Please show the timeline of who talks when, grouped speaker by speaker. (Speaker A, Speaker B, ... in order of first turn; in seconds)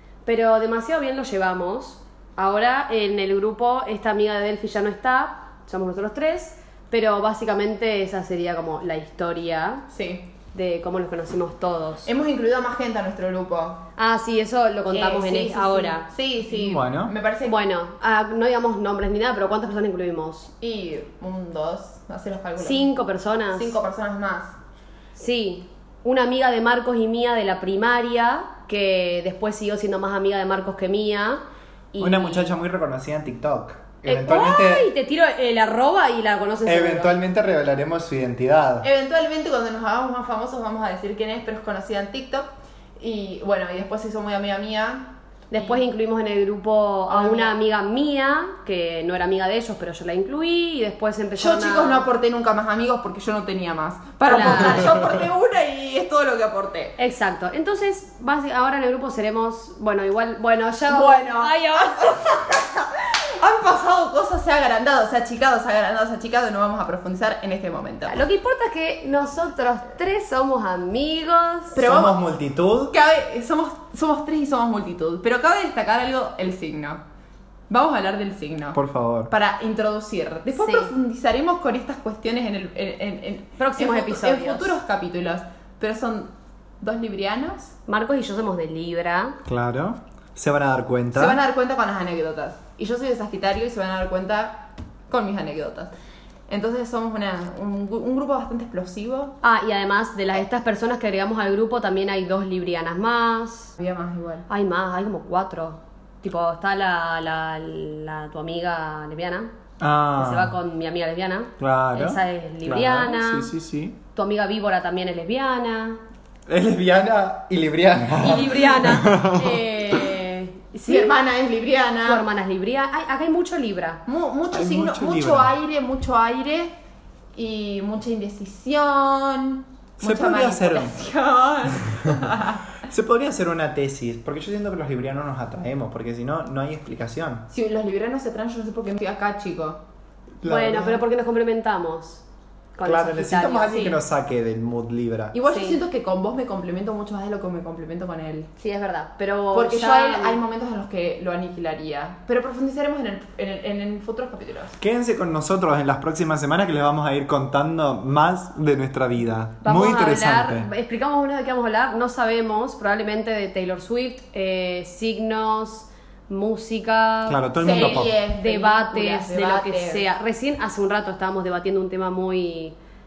Speaker A: 0.2-9.8, 10.5-12.1, 14.0-16.1, 17.4-20.5, 22.6-23.8, 25.1-31.4, 31.9-32.6, 34.1-37.2, 45.5-52.1, 54.3-54.9, 57.0-62.3, 68.1-71.8, 80.5-80.9, 83.6-84.8, 87.9-89.4, 99.4-103.7, 104.5-109.5, 110.2-113.5, 114.1-116.0, 118.2-121.2, 122.0-124.0, 140.4-142.2, 142.8-144.0, 145.5-145.8, 148.6-150.4, 159.6-172.8
Speaker B: 9.9-10.3, 12.1-13.8, 14.9-17.6, 20.6-22.9, 23.5-24.5, 38.8-45.9, 47.1-47.5, 51.4-57.0, 60.9-62.8, 63.4-68.2, 71.7-72.2, 72.9-77.0, 77.7-78.8, 79.3-87.7, 91.1-95.9, 96.5-99.4, 103.8-104.5, 120.9-122.3, 124.1-126.7, 127.4-132.6, 137.5-139.8, 145.3-148.5, 149.5-154.7, 167.6-170.1
Speaker C: 16.5-17.1, 32.0-34.9, 36.6-38.9, 71.8-72.9, 78.7-79.3, 89.5-91.4, 109.8-110.5, 111.6-114.0, 116.5-119.6, 124.5-125.5, 130.0-130.9, 132.9-137.5, 140.4-141.0, 142.8-145.4, 154.8-160.7, 167.3-168.1